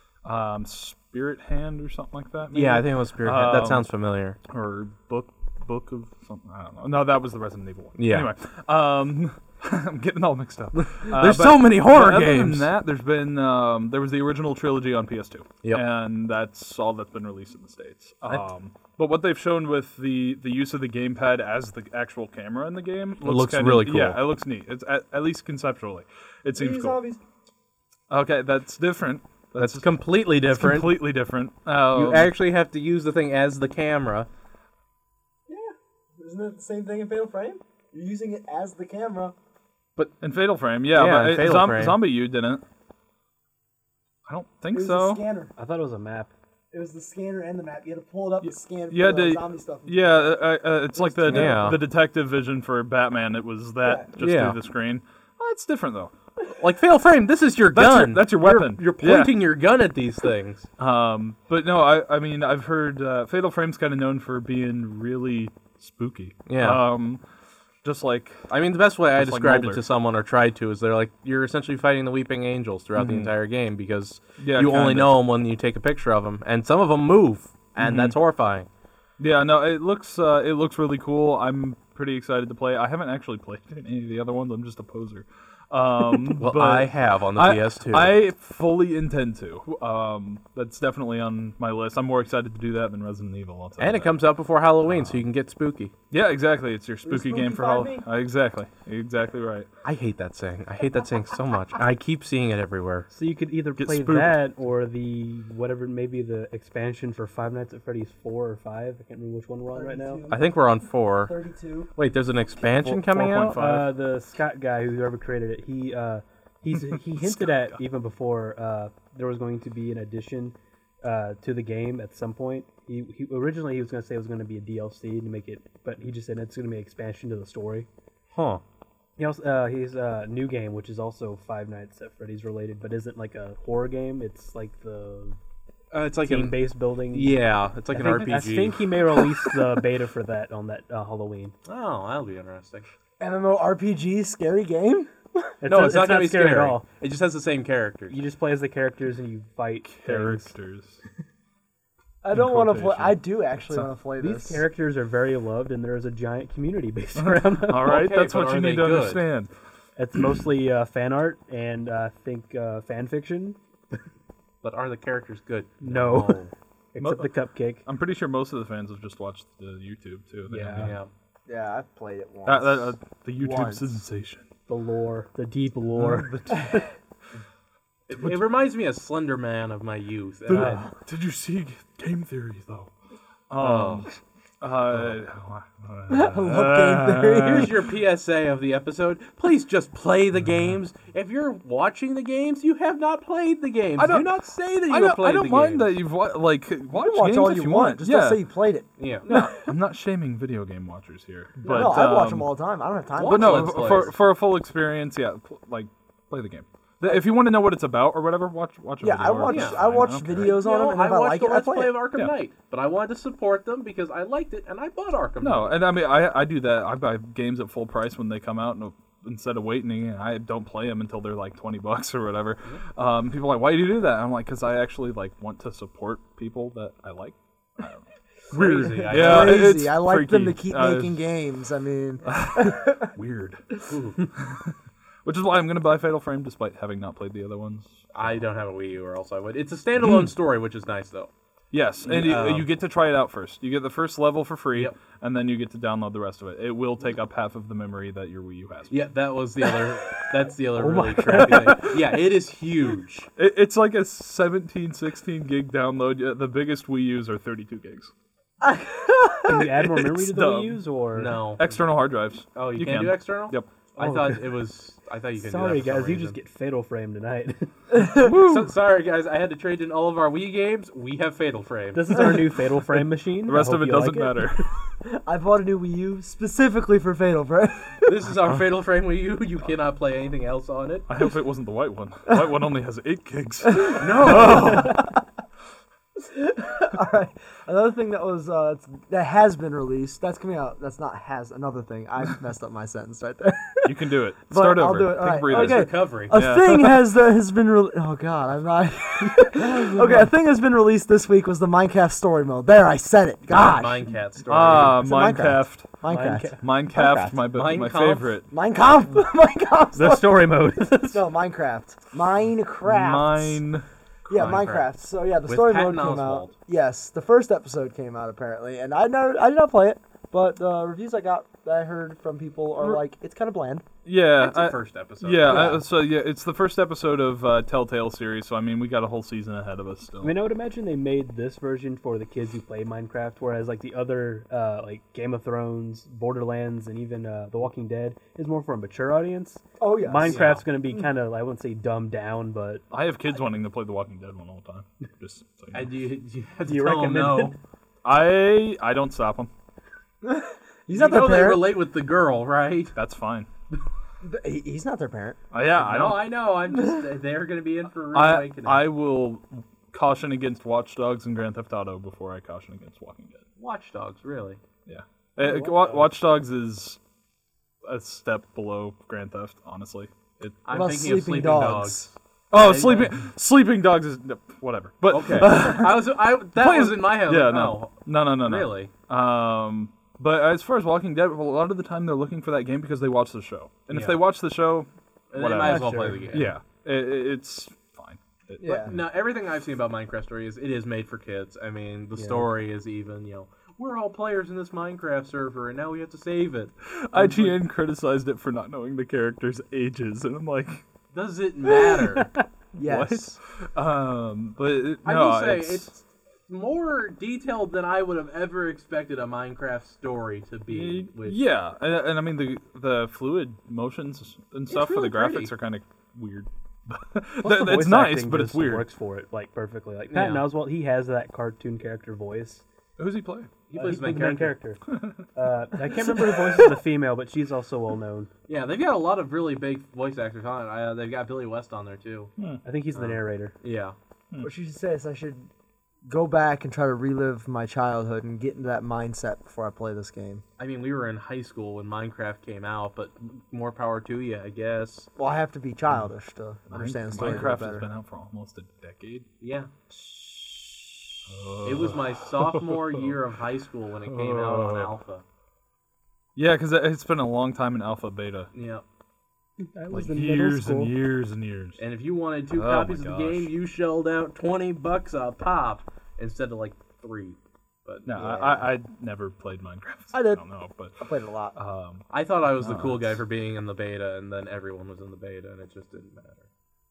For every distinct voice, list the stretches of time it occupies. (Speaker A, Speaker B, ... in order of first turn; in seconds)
Speaker A: 0.2-3.9, 4.5-27.0, 28.1-32.3, 40.2-42.6, 44.3-45.2, 48.4-56.1, 57.7-59.4, 60.8-67.2, 67.8-68.5, 69.2-69.8, 73.0-73.3, 74.4-75.2, 77.8-78.2, 79.2-94.2, 94.9-95.3, 96.1-99.7, 103.8-104.4, 112.8-113.9, 116.9-117.8, 149.8-151.0, 152.3-153.9, 157.2-159.5, 167.0-167.3, 167.8-171.0, 172.4-174.5, 175.9-176.8, 178.1-178.4, 180.5-182.9, 183.5-184.1, 184.6-187.8, 194.0-194.3, 194.9-198.4, 199.3-202.5, 203.2-210.6, 215.4-231.2, 232.2-233.7, 234.3-238.4, 240.0-240.3, 241.7-248.9, 251.3-252.0, 253.4-258.1, 259.5-260.9, 261.6-263.7, 268.1-268.7, 273.0-274.7, 281.1-285.0, 293.9-297.1, 304.5-305.9, 306.6-308.5, 312.8-313.9, 324.1-330.4, 342.9-345.9, 348.0-349.5, 352.9-353.5, 355.5-356.4, 358.1-363.4, 364.9-367.0, 367.8-370.6, 372.5-389.0, 396.9-400.8, 402.8-405.9, 410.7-418.9, 423.0-423.5, 424.9-425.2, 446.7-449.3, 451.3-453.2, 454.1-454.9, 456.4-458.5, 459.9-461.8, 462.5-463.5, 468.1-471.0, 471.6-473.2
Speaker B: 2.5-4.4, 8.0-8.3, 10.8-12.7, 23.2-24.2, 29.6-31.0, 31.9-34.3, 40.9-42.0, 51.3-51.8, 54.2-54.6, 56.5-60.7, 66.5-66.8, 68.5-78.7, 86.4-88.2, 93.8-95.9, 99.8-103.1, 110.3-111.3, 112.0-113.8, 128.3-128.6, 135.9-139.6, 141.7-142.9, 145.7-148.2, 157.8-159.2, 164.6-166.5, 170.8-171.1, 178.1-180.8, 183.6-184.1, 187.4-196.0, 199.0-199.4, 201.6-202.0, 203.1-204.2, 209.4-215.8, 228.5-229.8, 233.9-234.3, 238.1-241.3, 242.0-242.7, 248.9-253.3, 261.1-261.7, 262.6-266.4, 268.3-272.3, 278.1-281.1, 283.9-284.9, 295.4-296.4, 303.5-305.0, 307.5-308.4, 314.3-314.9, 315.5-316.5, 324.4-325.8, 340.3-340.6, 345.7-347.6, 350.9-352.9, 355.8-358.9, 363.6-364.6, 370.6-373.2, 375.1-378.9, 383.9-384.2, 385.3-386.5, 388.7-397.5, 401.1-402.3, 405.1-411.4, 414.7-415.5, 420.1-420.5, 423.7-424.6, 428.5-432.3, 432.9-434.0, 440.6-445.1, 447.2-447.5, 449.4-449.7, 451.6-455.2, 458.5-458.8, 461.8-468.6, 472.1-476.5
Speaker C: 26.6-27.2, 35.5-39.4, 44.7-45.5, 46.7-51.8, 53.8-54.1, 97.0-98.1, 109.7-110.5, 111.3-111.9, 143.2-145.5, 152.2-154.6, 171.5-173.9, 186.1-187.8, 196.9-199.7, 201.7-204.1, 209.0-212.0, 228.6-233.1, 258.6-259.7, 267.9-268.4, 272.2-272.4, 275.1-278.2, 283.7-285.2, 286.2-294.0, 294.5-304.0, 304.6-307.4, 308.5-313.6, 314.3-323.9, 325.5-325.8, 339.8-340.5, 350.2-351.8, 354.2-355.4, 370.7-372.1, 388.6-388.9, 402.8-403.2, 434.4-435.5, 436.1-440.4, 445.2-447.9, 459.8-460.9, 468.2-468.6, 470.1-470.4, 471.0-471.6
Speaker D: 45.6-46.3, 103.1-110.2, 113.5-127.9, 129.2-135.4, 136.2-141.5, 145.6-146.8, 148.1-150.5, 154.2-158.0, 160.0-163.6, 165.8-167.8, 170.5-171.0, 174.7-176.8, 180.5-180.8, 250.8-251.8, 259.4-261.4, 264.0-264.5, 265.4-267.7, 271.9-274.6, 299.5-300.3, 306.1-306.6, 309.9-311.3, 330.2-342.9, 346.7-347.6, 385.6-386.3, 392.2-392.5, 417.4-422.6, 423.7-428.3, 432.6-433.5, 459.8-460.4